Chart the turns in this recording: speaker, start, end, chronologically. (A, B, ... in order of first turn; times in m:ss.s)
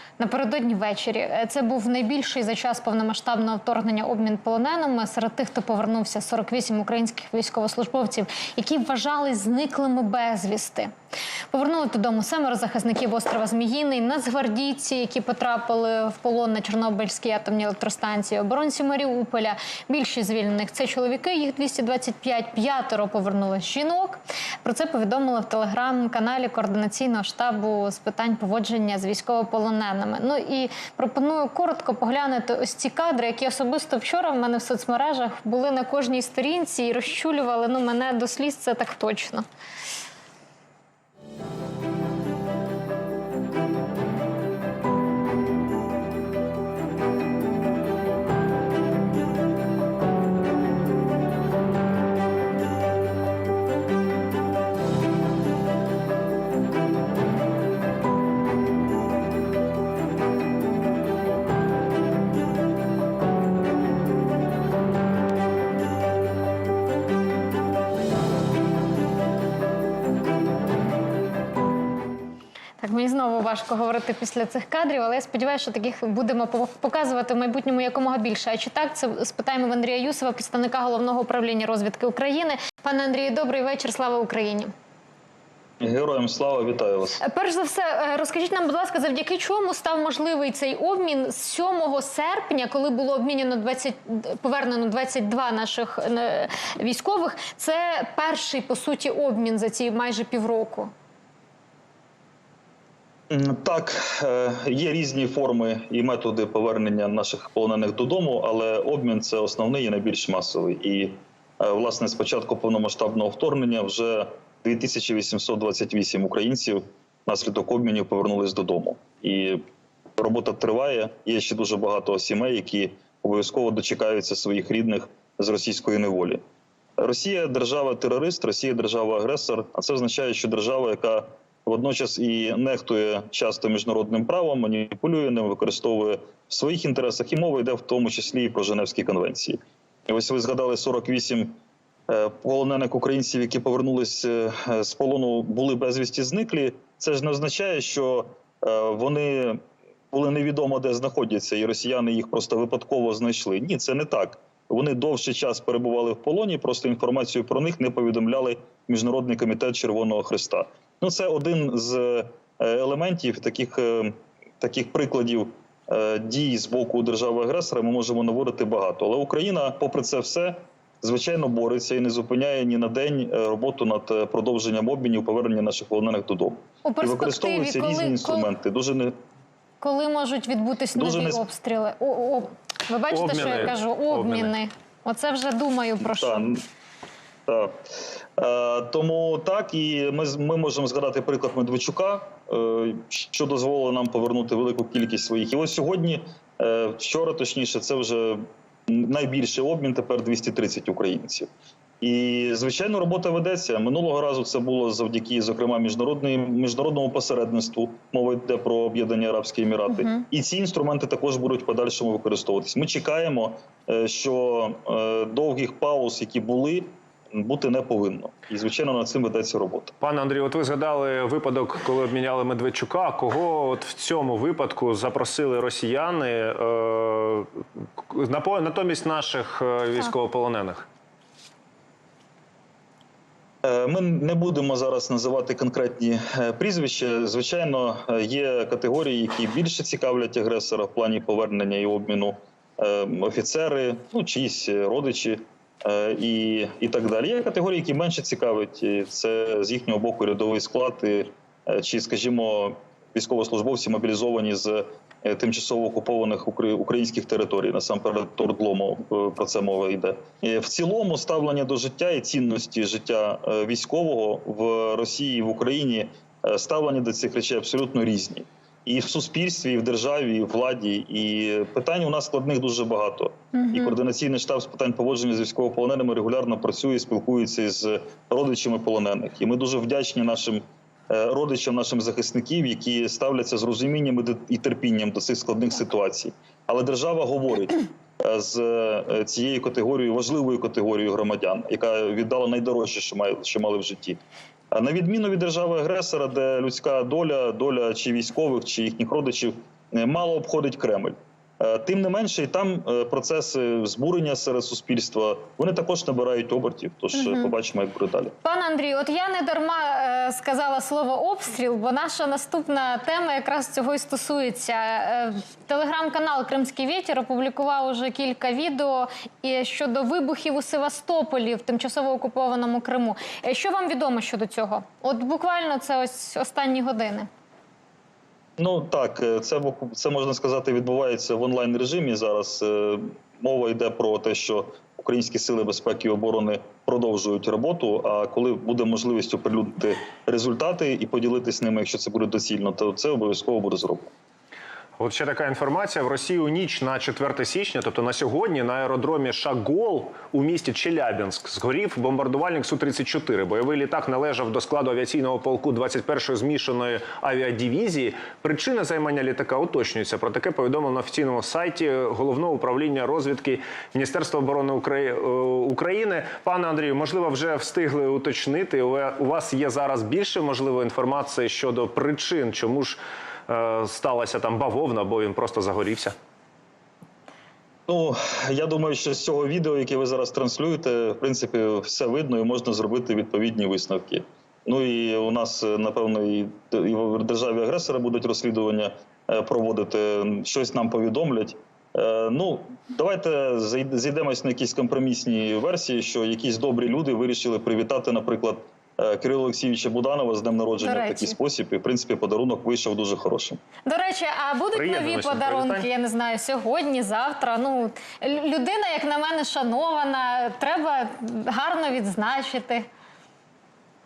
0:00.2-0:10.9 A
0:11.5-0:39.4 A
1:12.8-1:24.7 A
1:25.8-1:27.2 B
1:27.2-1:40.9 A
1:43.3-1:59.6 B
2:00.2-2:06.4 B
2:07.0-2:21.6 B
2:22.1-2:29.6 B
2:30.1-2:59.1 B
2:56.8-2:58.5 A
2:59.8-3:06.4 A
3:00.9-3:01.4 B
3:03.1-3:04.5 C
3:06.1-3:06.6 B
3:07.5-3:07.8 B
3:08.4-3:21.5 B
3:22.0-3:39.9 B
3:40.0-3:50.9 C
3:53.6-4:54.2 B
4:54.7-5:08.3 B
5:07.2-5:07.5 A
5:08.4-5:27.3 A
5:28.6-5:44.1 B
5:45.0-6:16.1 C
6:17.9-6:43.6 B
6:40.8-6:41.4 A
6:43.8-6:52.8 A
6:44.7-6:45.9 C